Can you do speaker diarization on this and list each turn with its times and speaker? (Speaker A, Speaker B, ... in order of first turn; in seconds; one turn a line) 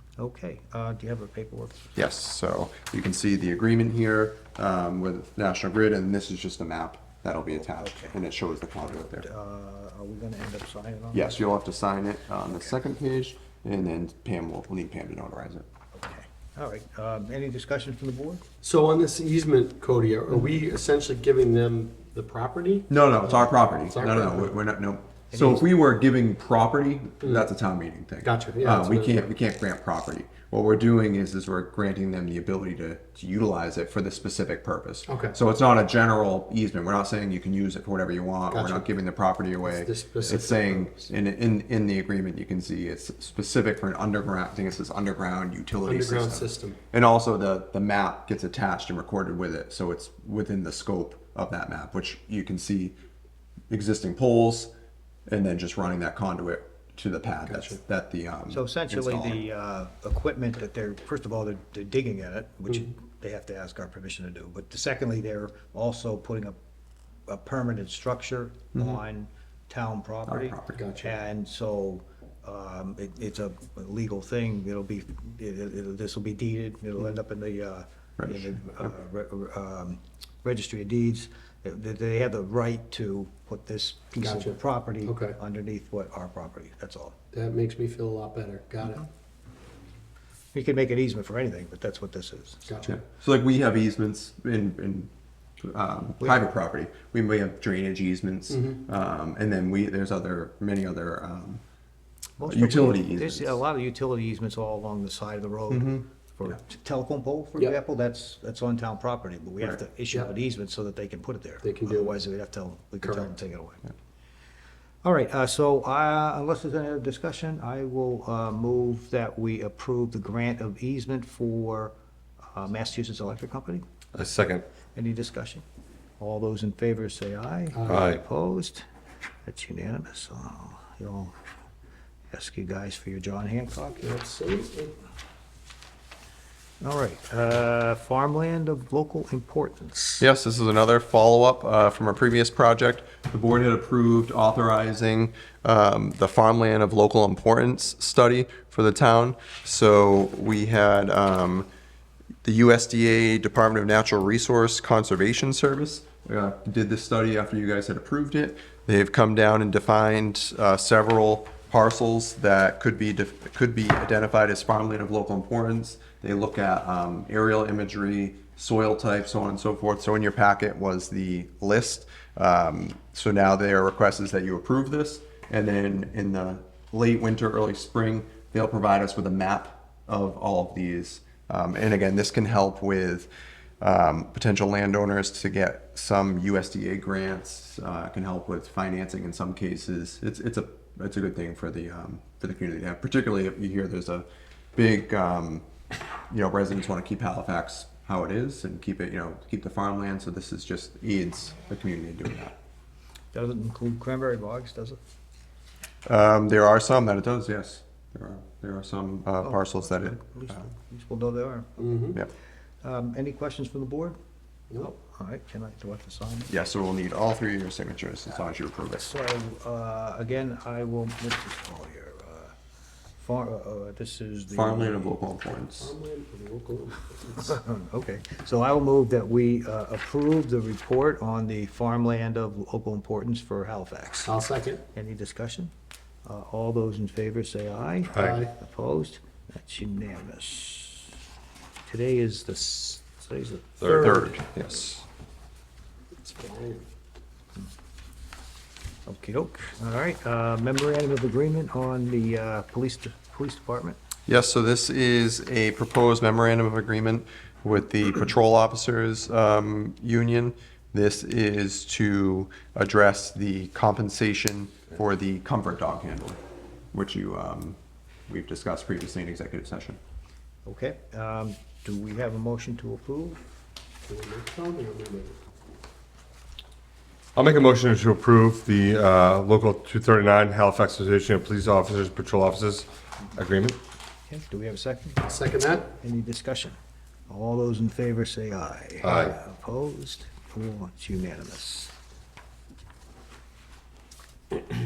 Speaker A: 0.2-1.9
Speaker B: 1.9-9.3
Speaker A: 7.5-8.2
Speaker A: 8.8-11.4
Speaker B: 11.1-15.6
Speaker A: 12.5-12.7
Speaker A: 15.9-18.4
Speaker C: 18.6-24.6
Speaker B: 22.9-53.0
Speaker A: 25.3-25.7
Speaker C: 27.2-27.5
Speaker C: 28.2-29.3
Speaker C: 35.0-35.4
Speaker C: 38.5-38.9
Speaker C: 39.6-41.1
Speaker C: 45.8-46.8
Speaker B: 53.7-54.7
Speaker B: 55.3-59.4
Speaker C: 57.5-57.8
Speaker A: 58.5-66.5
Speaker A: 67.3-87.2
Speaker B: 68.7-69.0
Speaker B: 70.3-70.8
Speaker C: 70.7-71.1
Speaker B: 78.2-78.9
Speaker C: 84.2-85.4
Speaker C: 87.3-89.0
Speaker A: 90.5-92.7
Speaker C: 92.7-92.9
Speaker B: 92.8-95.1
Speaker B: 95.6-101.6
Speaker C: 98.5-98.8
Speaker A: 102.4-113.8
Speaker B: 102.5-103.6
Speaker B: 105.7-106.1
Speaker C: 111.6-112.2
Speaker C: 113.0-113.3
Speaker A: 115.0-121.9
Speaker A: 122.5-123.8
Speaker D: 124.1-124.7
Speaker A: 124.9-125.6
Speaker A: 126.2-128.8
Speaker C: 127.7-128.1
Speaker D: 127.8-128.2
Speaker A: 129.4-131.3
Speaker A: 132.3-134.2
Speaker C: 134.0-135.0
Speaker A: 136.8-140.2
Speaker B: 140.2-151.7
Speaker B: 152.4-183.3
Speaker B: 183.8-195.7
Speaker B: 196.3-202.5
Speaker A: 203.3-205.0
Speaker B: 206.1-210.7
Speaker A: 209.4-211.8
Speaker C: 211.8-212.2
Speaker A: 212.8-214.2
Speaker A: 214.7-216.5
Speaker B: 216.5-219.1
Speaker A: 219.0-222.5
Speaker A: 223.2-225.2
Speaker B: 224.5-225.9
Speaker C: 225.8-227.6
Speaker A: 227.4-234.3
Speaker C: 234.2-234.8
Speaker A: 234.9-235.7
Speaker A: 236.2-241.1
Speaker D: 238.1-238.4
Speaker C: 238.1-238.6
Speaker A: 241.9-244.3
Speaker B: 243.8-245.0
Speaker C: 246.2-246.8
Speaker A: 249.1-254.0
Speaker B: 254.3-266.4
Speaker B: 266.9-270.0
Speaker A: 270.6-273.4
Speaker C: 274.1-275.4
Speaker D: 277.4-283.8
Speaker A: 284.3-285.4
Speaker C: 285.2-285.9
Speaker A: 286.0-286.8
Speaker A: 287.3-291.9
Speaker D: 289.0-289.3